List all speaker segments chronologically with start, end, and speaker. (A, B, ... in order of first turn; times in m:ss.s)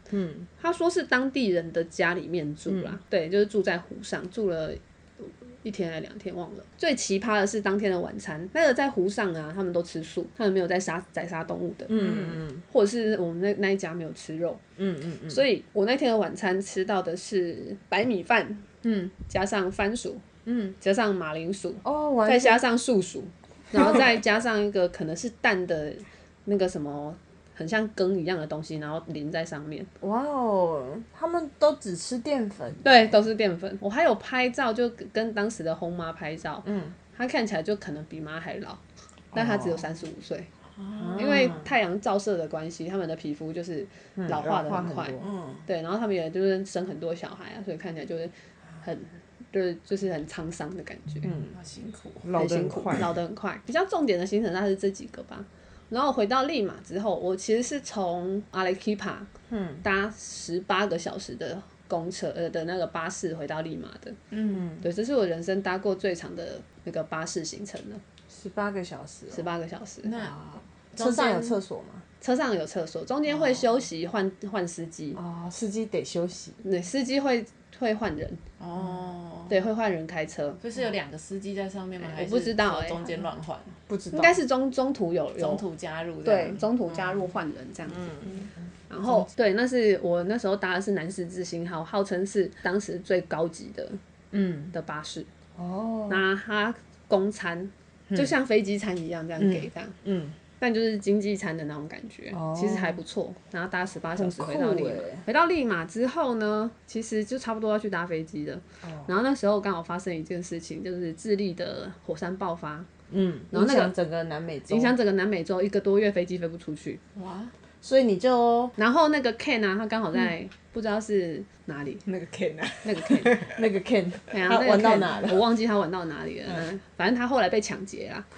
0:00.1-0:00.5 A
0:00.6-0:14.6 B
0:02.7-0:03.0 A
0:11.9-0:12.6 A
0:12.0-0:12.2 C
0:14.8-0:15.4 A
0:15.3-0:29.9 B
0:21.8-0:22.6 A
0:30.0-0:32.9 A
0:32.8-0:38.8 B
0:36.6-0:36.9 A
0:39.3-0:39.8 A
0:39.3-0:40.5 B
0:40.8-0:41.2 C
0:40.9-0:41.7 A
0:41.1-0:51.3 B
0:44.2-0:45.3 A
0:45.2-0:45.6 C
0:51.2-0:51.5 A
0:51.4-0:52.2 C
0:52.2-0:53.1 A
0:52.3-0:59.3 B
0:59.5-0:59.8 A
0:59.8-1:04.2 B
1:04.3-1:04.7 C
1:04.5-1:04.8 A
1:04.8-1:08.0 B
1:08.3-1:09.5 A
1:09.3-1:10.1 B
1:10.0-1:11.6 C
1:11.0-1:12.0 A
1:12.2-1:15.2 B
1:15.1-1:16.6 A
1:16.6-1:18.4 B
1:18.6-1:19.5 C
1:19.5-1:20.6 B
1:20.6-1:23.7 C
1:22.1-1:23.0 B
1:23.9-1:24.4 A
1:24.1-1:25.6 B
1:25.4-1:26.7 C
1:26.2-1:28.1 B
1:27.9-1:28.5 C
1:28.9-1:34.0 B
1:34.3-1:34.7 A
1:34.7-1:35.3 B
1:35.6-1:36.2 A
1:36.1-1:39.9 B
1:39.4-1:40.4 A
1:40.6-1:52.9 B
1:42.3-1:43.0 A
1:44.2-1:45.2 A
1:48.8-1:49.1 A
1:53.1-1:55.0 A
1:53.5-1:53.9 B
1:54.7-1:57.0 B
1:57.2-1:57.5 C
1:57.8-1:58.7 A
1:58.8-2:02.0 B
2:02.0-2:03.6 C
2:02.8-2:03.4 B
2:03.5-2:05.4 A
2:04.3-2:08.2 B